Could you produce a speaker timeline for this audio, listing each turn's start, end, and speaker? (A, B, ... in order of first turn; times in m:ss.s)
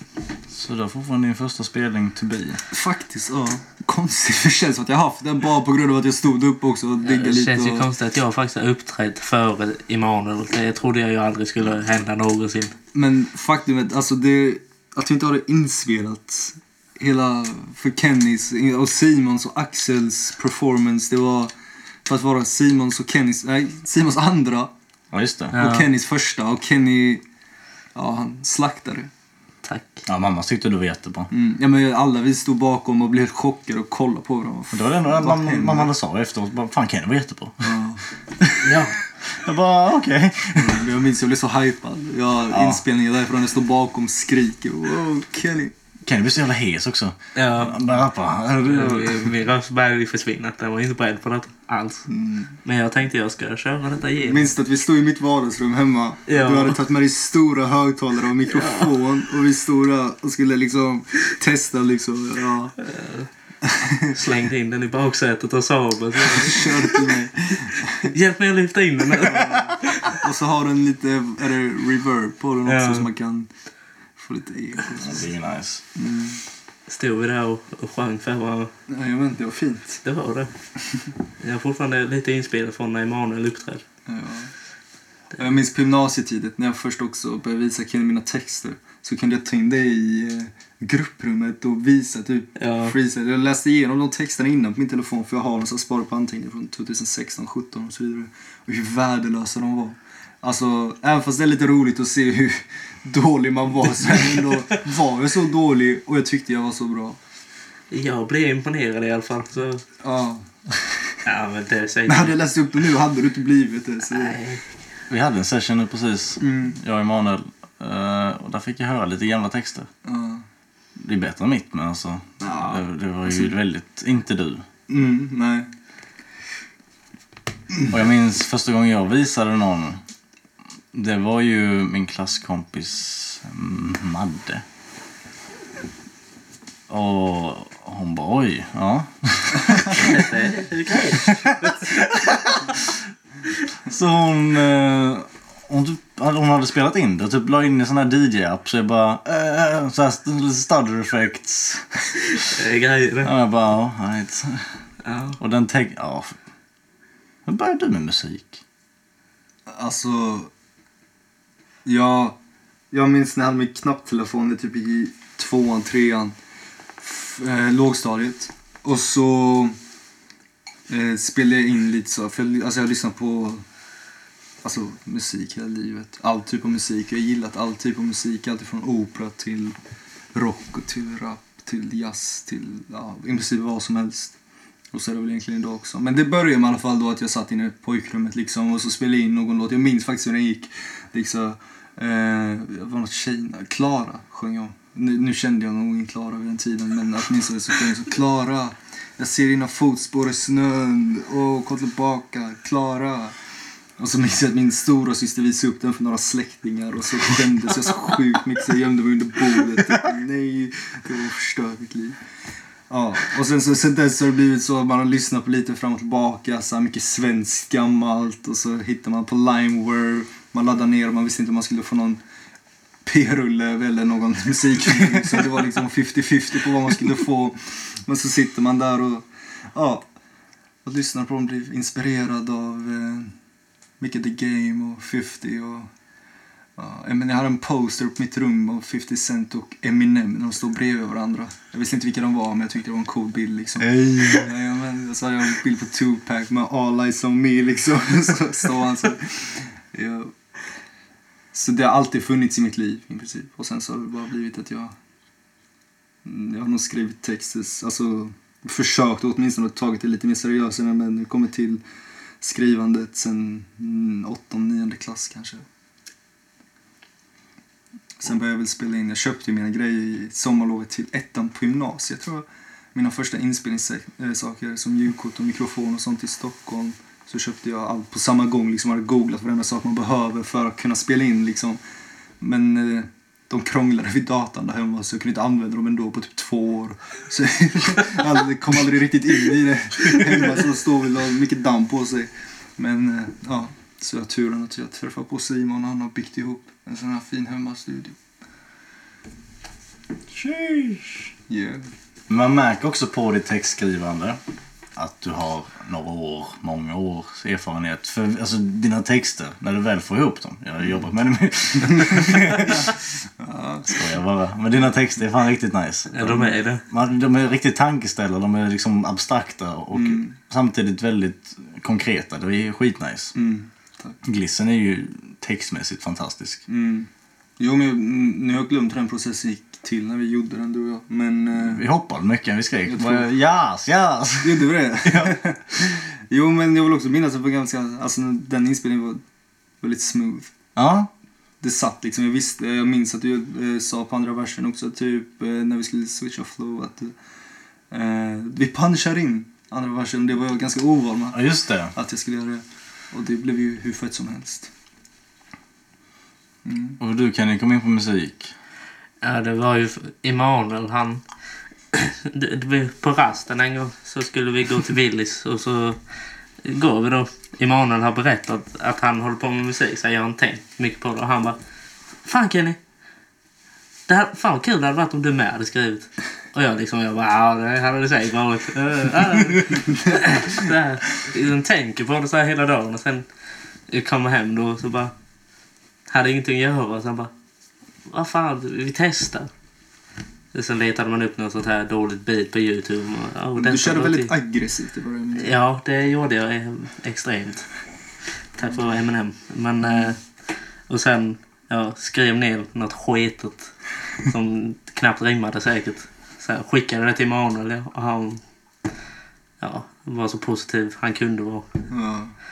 0:00.5-0:02.6 A
0:02.7-0:07.9 B
0:07.0-0:12.8 C
0:12.9-0:21.5 B
0:22.0-0:24.7 B
0:25.1-0:25.6 A
0:25.5-0:25.9 C
0:25.6-0:27.2 B
0:28.0-0:29.1 B
0:29.6-0:30.0 C
0:30.1-0:31.3 A
0:31.3-0:35.9 B
0:34.7-0:37.7 A
0:37.6-0:38.0 B
0:38.4-0:38.7 A
0:38.6-0:39.0 C
0:39.3-0:40.9 A
0:40.6-0:45.7 B
0:42.5-0:42.8 A
0:46.0-0:49.3 A
0:47.4-0:47.8 C
0:48.6-0:52.1 C
0:52.1-0:52.6 B
0:52.6-0:54.5 C
0:54.2-1:02.8 B
0:56.3-0:56.8 C
0:58.5-0:58.9 C
1:02.8-1:03.3 C
1:03.6-1:04.2 B
1:04.1-1:07.1 C
1:06.2-1:08.1 B
1:07.8-1:10.2 C
1:09.1-1:13.5 B
1:12.7-1:13.1 C
1:14.2-1:15.3 B
1:15.0-1:15.8 A
1:16.0-1:16.4 B
1:16.9-1:18.7 C
1:18.9-1:20.0 B
1:20.0-1:20.5 C
1:21.4-1:23.8 C
1:24.1-1:24.5 B
1:25.4-1:47.2 B
1:32.6-1:33.0 C
1:47.9-1:49.8 C
1:50.0-1:50.5 B
1:51.2-1:52.4 C
1:52.1-1:54.4 B
1:54.1-1:54.6 C
1:55.1-1:59.9 A
1:56.4-1:56.8 B
2:00.0-2:00.4 B
2:01.0-2:04.7 A
2:02.4-2:03.5 B
2:04.9-2:05.7 B
2:07.9-2:10.0 A
2:10.9-2:14.6 A
2:16.9-2:20.3 A
2:19.9-2:22.1 C
2:21.0-2:22.9 A
2:23.8-2:31.9 A
2:32.3-2:33.3 C
2:33.2-2:34.7 A
2:35.0-2:35.4 C
2:35.4-2:36.4 A
2:37.5-2:38.6 A
2:39.7-2:40.5 B
2:41.8-2:42.4 B
2:42.9-2:46.3 B
2:47.0-2:49.8 B
2:50.9-2:53.6 B
2:54.6-2:59.8 B
3:00.3-3:04.4 B
3:04.9-3:23.4 B
3:24.0-3:32.2 B
3:32.9-3:42.2 B
3:43.0-3:50.0 B
3:50.8-3:53.3 B
3:54.0-3:55.9 B
3:56.8-4:10.3 B
4:11.5-4:15.0 B
4:16.2-4:21.8 B
4:22.4-4:25.6 B
4:28.2-4:41.8 B
4:42.4-4:58.2 B
5:00.3-5:01.3 A
5:01.5-5:01.8 B
5:02.3-5:04.4 A
5:05.0-5:13.0 A
5:12.3-5:14.1 B
5:13.9-5:23.3 A
5:16.1-5:16.8 C
5:19.9-5:20.4 B
5:23.4-5:24.2 B
5:24.2-5:26.6 A
5:26.7-5:27.1 B
5:27.6-5:31.8 B
5:31.6-5:35.4 A
5:32.9-5:33.3 B
5:34.4-5:39.2 B
5:39.8-5:40.5 B
5:40.8-5:41.1 A
5:41.6-5:47.1 B
5:47.9-5:54.7 B
5:51.3-5:51.9 A
5:56.6-5:57.0 B
5:57.0-5:58.5 A
5:59.2-6:01.2 C
6:01.9-6:06.0 C
6:06.6-6:11.6 C
6:12.2-6:12.8 C
6:14.1-6:23.3 C
6:19.7-6:20.3 B
6:23.9-6:25.1 C
6:26.1-6:27.3 C
6:28.1-6:29.5 C
6:30.5-6:34.3 C
6:33.6-6:35.6 B
6:35.4-6:37.7 C
6:38.6-6:40.2 C
6:40.9-6:43.7 C
6:44.2-6:48.4 C
6:49.6-6:51.7 C
6:51.9-6:52.3 B